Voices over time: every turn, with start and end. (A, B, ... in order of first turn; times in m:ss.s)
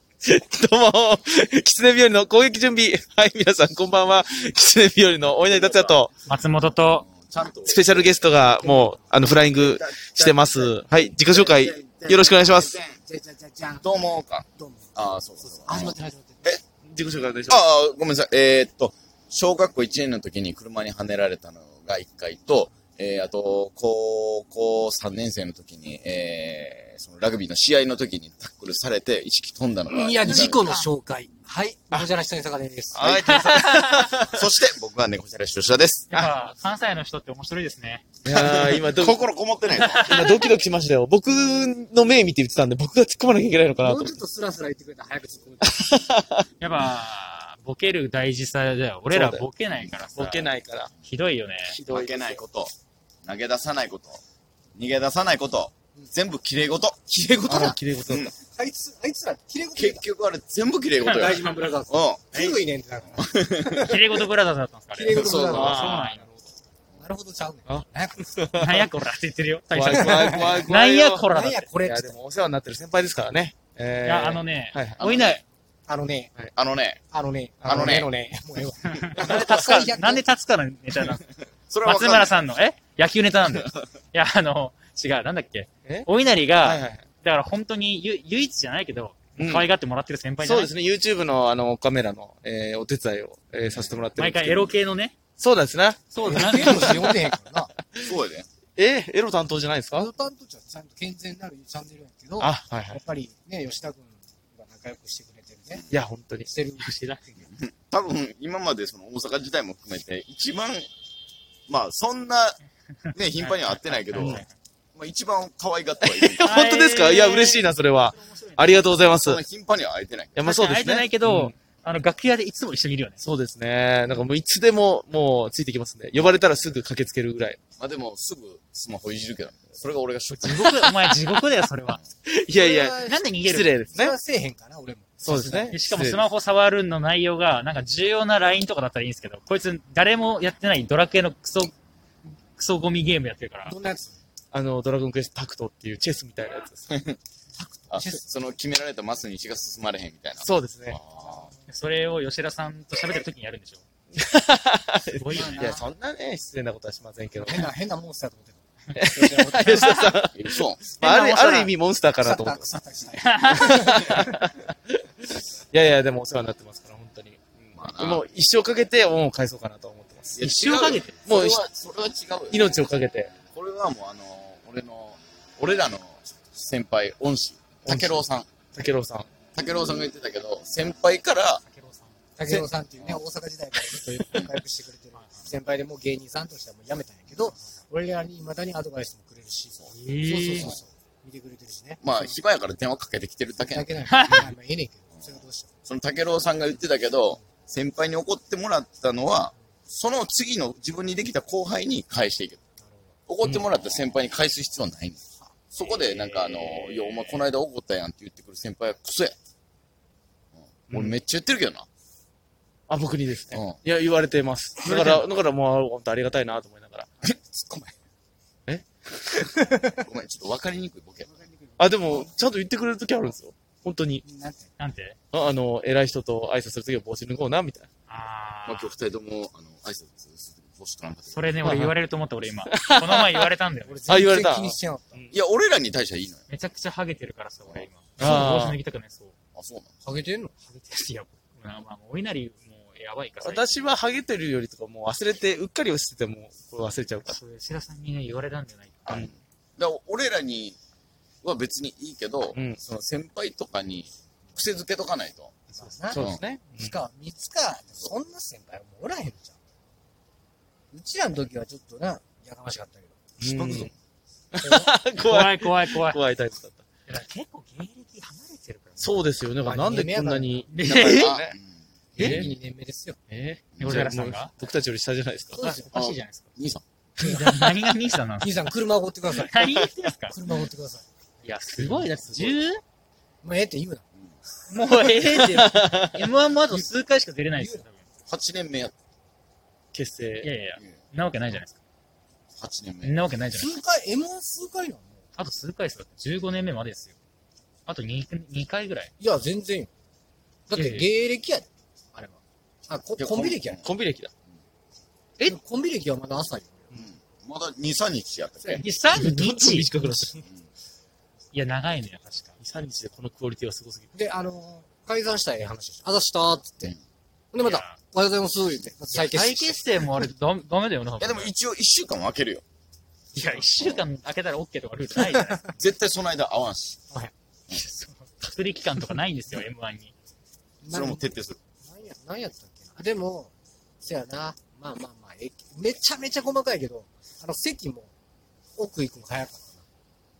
0:00.2-0:06.2 A
0:05.4-0:06.0 B
0:06.2-0:07.1 C
0:06.9-0:07.8 B
0:07.6-0:12.7 A
0:08.5-0:09.1 D
0:09.2-0:13.0 B
0:13.0-0:14.0 D
0:13.8-0:16.6 B
0:14.6-0:16.5 D
0:16.8-0:17.6 A
0:17.5-0:30.6 B
0:29.9-0:33.5 D
0:32.9-0:34.4 A
0:33.0-0:33.3 B
0:33.3-0:34.0 C
0:34.3-0:36.1 B
0:36.1-0:38.1 C
0:38.2-0:39.2 A
0:38.3-0:40.1 B
0:39.7-0:40.5 C
0:40.0-0:44.2 A
0:43.8-0:46.0 D
0:45.6-0:46.5 A
0:46.6-0:51.8 C
0:49.1-0:49.4 A
0:50.1-0:50.9 A
0:51.6-0:52.4 A
0:51.9-0:54.2 B
0:54.8-0:57.1 B
0:57.1-0:58.3 A
0:57.4-0:57.8 D
0:58.0-0:58.3 B
0:58.4-1:00.0 D
0:59.8-1:02.5 B
1:01.0-1:04.1 D
1:03.2-1:04.0 B
1:03.8-1:06.2 C
1:04.9-1:05.9 D
1:05.0-1:06.6 A
1:05.1-1:05.9 B
1:07.0-1:08.6 D
1:07.7-1:08.8 A
1:08.5-1:11.7 C
1:09.7-1:11.2 A
1:09.9-1:10.7 D
1:11.3-1:12.2 D
1:11.8-1:15.0 A
1:14.0-1:15.4 C
1:15.0-1:15.4 B
1:15.9-1:16.3 D
1:16.5-1:17.0 B
1:17.1-1:20.3 D
1:17.6-1:17.9 A
1:17.6-1:18.1 B
1:18.8-1:21.2 C
1:21.7-1:22.5 B
1:21.8-1:30.7 C
1:26.6-1:27.0 A
1:29.4-1:29.7 A
1:30.4-1:34.7 A
1:34.1-1:35.2 C
1:35.4-1:38.1 A
1:36.1-1:37.1 C
1:36.2-1:37.7 D
1:38.0-1:38.5 B
1:38.8-1:40.1 A
1:39.9-1:45.8 D
1:42.4-1:43.0 A
1:45.7-1:46.0 B
1:45.9-1:46.5 A
1:46.5-1:46.9 D
1:46.8-1:47.5 C
1:47.4-1:50.9 B
1:51.7-1:52.6 B
1:53.1-1:54.4 B
1:53.3-1:54.5 C
1:54.1-1:54.4 A
1:54.9-1:56.4 B
1:56.0-1:59.4 A
1:56.4-1:59.1 C
1:59.1-2:00.4 B
2:00.4-2:01.6 A
2:00.4-2:03.2 C
2:03.2-2:07.6 A
2:07.8-2:10.9 B
2:10.3-2:12.0 C
2:12.2-2:14.2 A
2:12.6-2:13.2 D
2:13.0-2:13.7 C
2:13.8-2:15.8 D
2:15.2-2:16.3 A
2:15.7-2:21.7 C
2:22.5-2:23.7 C
2:23.6-2:24.2 D
2:24.5-2:26.9 A
2:26.9-2:27.2 B
2:27.6-2:28.2 D
2:27.9-2:31.5 B
2:30.4-2:31.0 A
2:31.7-2:33.8 C
2:34.1-2:37.7 A
2:35.2-2:35.8 C
2:35.3-2:35.8 D
2:37.4-2:40.0 D
2:38.9-2:42.7 A
2:39.7-2:40.1 C
2:40.3-2:40.9 B
2:41.0-2:41.7 C
2:42.2-2:44.5 D
2:43.2-2:43.9 C
2:43.5-2:47.4 A
2:47.6-2:48.2 B
2:47.9-2:50.4 A
2:50.3-2:52.8 B
2:50.4-2:51.2 C
2:51.2-2:51.6 A
2:52.5-2:53.4 A
2:53.5-2:58.5 B
2:57.8-2:59.3 A
2:59.5-3:01.6 B
3:01.6-3:02.2 C
3:02.4-3:12.3 D
3:02.5-3:03.2 B
3:09.9-3:10.7 C
3:12.0-3:13.9 B
3:13.6-3:15.7 D
3:14.0-3:14.5 C
3:15.1-3:22.6 B
3:22.8-3:23.1 D
3:23.3-3:29.4 B
3:25.8-3:27.5 A
3:30.6-3:31.9 B
3:30.9-3:31.2 A
3:32.9-3:37.1 A
3:33.5-3:33.8 B
3:37.5-3:37.9 D
3:38.7-3:39.5 A
3:40.0-3:41.4 B
3:41.2-3:42.1 D
3:41.8-3:44.2 A
3:44.2-3:44.7 D
3:44.8-3:45.2 C
3:45.3-3:47.9 A
3:48.1-3:49.0 C
3:48.6-3:51.5 B
3:51.3-3:54.0 C
3:51.6-3:51.9 A
3:52.7-3:53.5 A
3:53.8-3:55.2 D
3:54.1-3:55.4 A
3:55.3-3:56.5 B
3:56.5-3:59.3 C
3:58.2-3:58.8 A
3:59.5-3:59.9 B
4:00.0-4:00.6 D
4:00.7-4:03.7 C
4:03.4-4:07.4 A
4:07.2-4:09.2 C
4:09.1-4:10.8 B
4:11.4-4:15.6 B
4:12.5-4:12.8 A
4:15.7-4:19.6 D
4:16.1-4:16.9 A
4:20.9-4:23.2 D
4:23.4-4:23.9 A
4:23.6-4:23.9 B
4:24.5-4:26.8 A
4:24.6-4:24.9 D
4:25.2-4:26.2 C
4:27.1-4:29.3 C
4:29.0-4:31.5 A
4:29.6-4:30.7 D
4:30.7-4:31.4 C
4:30.9-4:31.8 B
4:32.2-4:33.2 D
4:32.2-4:32.5 A
4:33.3-4:35.7 A
4:33.7-4:34.0 B
4:33.8-4:34.5 C
4:35.6-4:35.9 D
4:35.6-4:36.5 C
4:35.9-4:36.8 B
4:37.2-4:38.5 C
4:38.4-4:41.1 D
4:39.3-4:40.4 C
4:41.4-4:42.8 C
4:41.8-4:42.6 A
4:43.4-4:44.0 D
4:44.7-4:45.4 D
4:44.7-4:48.0 C
4:45.3-4:46.2 A
4:47.5-4:47.8 D
4:48.3-4:48.9 B
4:49.9-4:50.5 A
4:50.4-4:51.8 C
4:50.8-4:51.0 B
4:52.6-4:53.2 B
4:53.0-4:53.8 C
4:53.5-4:55.2 D
4:55.4-4:57.1 C
4:57.8-4:59.1 C
4:59.2-4:59.9 D
5:00.7-5:03.8 D
5:00.7-5:01.0 C
5:03.2-5:03.9 B
5:03.8-5:04.3 A
5:05.4-5:06.9 D
5:06.9-5:08.8 B
5:08.7-5:09.9 C
5:09.1-5:10.4 A
5:11.5-5:12.6 C
5:12.6-5:14.1 A
5:14.1-5:16.9 D
5:17.5-5:20.3 D
5:17.6-5:18.0 C
5:19.1-5:21.5 C
5:21.2-5:22.6 B
5:23.3-5:25.7 C
5:23.8-5:24.1 B
5:25.7-5:27.0 B
5:27.7-5:30.1 C
5:30.8-5:38.1 D
5:30.9-5:31.6 B
5:38.8-5:39.8 D